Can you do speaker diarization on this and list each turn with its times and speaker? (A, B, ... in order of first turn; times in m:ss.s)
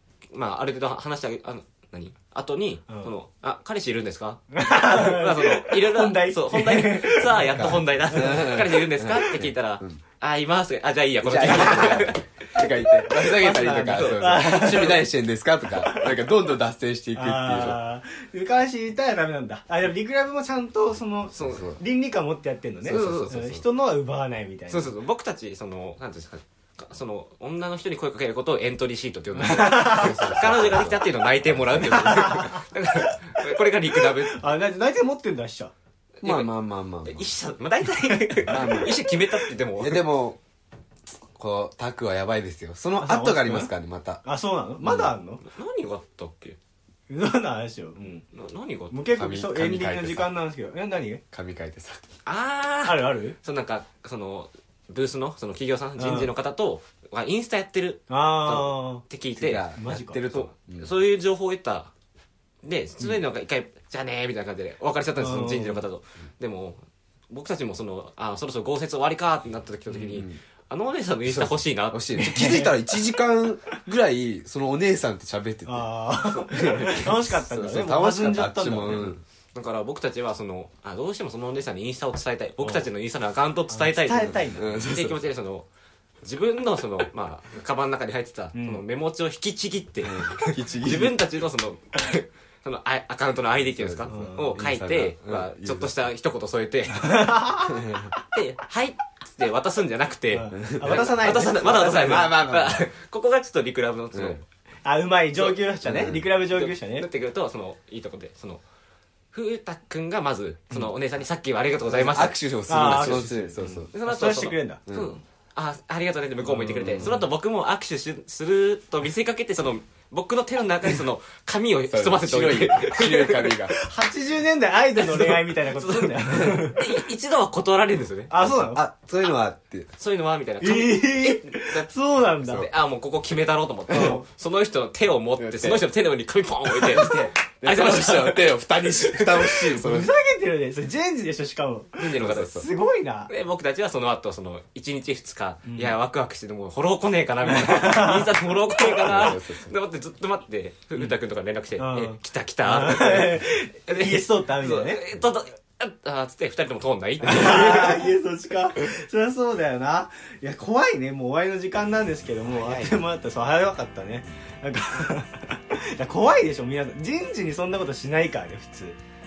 0:00.3-0:15.0 A
0:04.5-0:08.6 B
0:07.5-0:10.0 C
0:11.2-0:17.8 C
0:13.2-0:15.0 B
0:15.8-0:16.1 B
0:17.1-0:24.9 B
0:21.3-0:21.7 A
0:21.4-0:21.8 C
0:22.8-0:23.6 C
0:22.8-0:23.3 A
0:24.7-0:34.4 A
0:29.4-0:30.4 B
0:29.7-0:31.9 C
0:31.9-0:35.7 B
0:36.2-0:36.5 A
0:36.2-0:37.3 C
0:37.0-0:40.1 A
0:38.3-0:38.9 B
0:38.4-0:39.2 C
0:39.8-0:40.4 C
0:41.1-0:44.2 C
0:43.0-0:43.7 B
0:44.2-0:45.4 B
0:44.8-0:45.1 C
0:45.4-0:46.6 A
0:47.1-0:48.2 B
0:48.3-0:49.0 A
0:48.9-0:51.2 B
0:49.1-0:50.3 C
0:51.3-0:52.0 C
0:52.2-0:59.8 A
0:52.8-0:53.4 B
0:56.0-0:56.3 B
0:58.1-0:59.0 B
0:59.4-1:00.9 C
0:59.7-1:00.2 B
1:00.3-1:01.9 A
1:02.6-1:12.7 A
1:05.2-1:05.8 B
1:09.9-1:10.4 C
1:11.3-1:15.9 C
1:12.2-1:12.8 B
1:15.6-1:19.1 B
1:16.2-1:17.1 A
1:16.5-1:19.2 C
1:18.9-1:25.7 A
1:23.7-1:24.8 B
1:24.2-1:25.2 C
1:26.2-1:44.4 A
1:28.5-1:28.8 B
1:30.0-1:31.2 C
1:33.6-1:36.0 C
1:34.1-1:34.6 B
1:37.0-1:37.8 B
1:37.7-1:38.0 C
1:40.3-1:42.3 B
1:40.6-1:42.9 C
1:44.1-1:44.4 C
1:44.8-1:47.1 B
1:45.8-1:46.3 C
1:46.4-1:48.6 A
1:49.3-2:03.6 A
1:51.9-1:53.9 C
1:52.7-1:54.8 B
1:54.9-1:55.2 C
1:56.4-1:57.2 C
2:01.9-2:03.7 C
2:03.7-2:06.9 B
2:05.0-2:08.4 A
2:08.3-2:08.8 B
2:08.4-2:09.9 C
2:10.0-2:11.9 A
2:10.6-2:12.7 B
2:12.4-2:19.7 A
2:13.9-2:14.2 C
2:13.9-2:14.2 B
2:15.4-2:15.8 C
2:16.6-2:20.1 C
2:19.7-2:23.3 B
2:22.0-2:22.6 A
2:22.2-2:22.6 C
2:23.3-2:38.1 A
2:25.6-2:26.0 B
2:27.4-2:29.2 B
2:28.8-2:29.7 C
2:31.8-2:35.0 B
2:37.2-2:49.0 B
2:42.5-2:43.0 C